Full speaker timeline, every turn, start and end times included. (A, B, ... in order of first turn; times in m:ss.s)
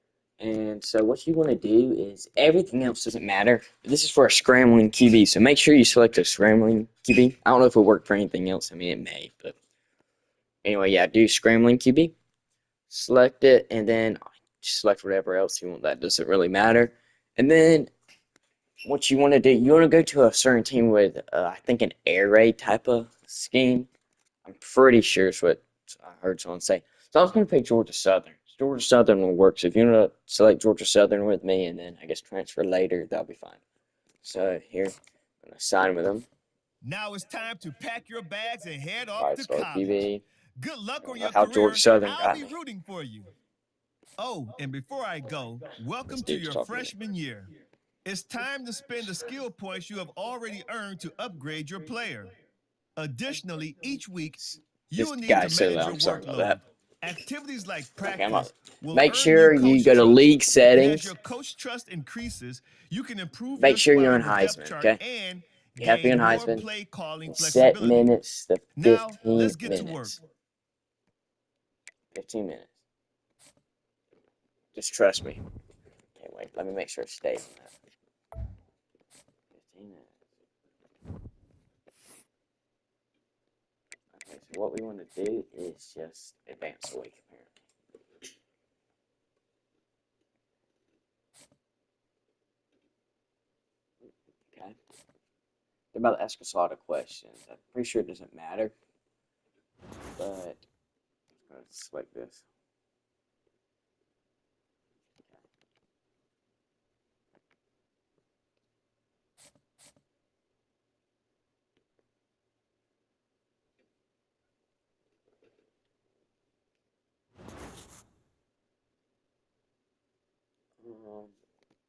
0:00.4-0:09.6 A
0:10.6-0:12.1 A
0:12.9-0:17.9 A
0:18.8-0:23.9 A
0:24.4-0:33.6 A
0:34.2-0:36.3 A
0:36.8-0:40.0 B
0:39.2-0:40.2 A
0:40.6-0:43.3 B
0:41.0-0:42.5 A
0:44.2-0:47.5 B
0:46.1-0:46.9 A
0:48.0-0:52.3 B
0:53.0-1:08.1 B
0:54.4-0:56.6 A
0:58.0-1:01.1 A
1:03.6-1:05.0 A
1:05.8-1:06.7 A
1:07.3-1:10.2 A
1:08.8-1:10.2 B
1:12.1-1:12.7 A
1:14.7-1:15.4 A
1:16.2-1:17.7 A
1:19.5-1:20.2 A
1:24.1-1:27.5 A
1:34.5-1:34.8 A
1:35.9-1:38.7 A
1:40.2-1:40.6 A
1:41.4-1:42.4 A
2:00.8-2:01.3 A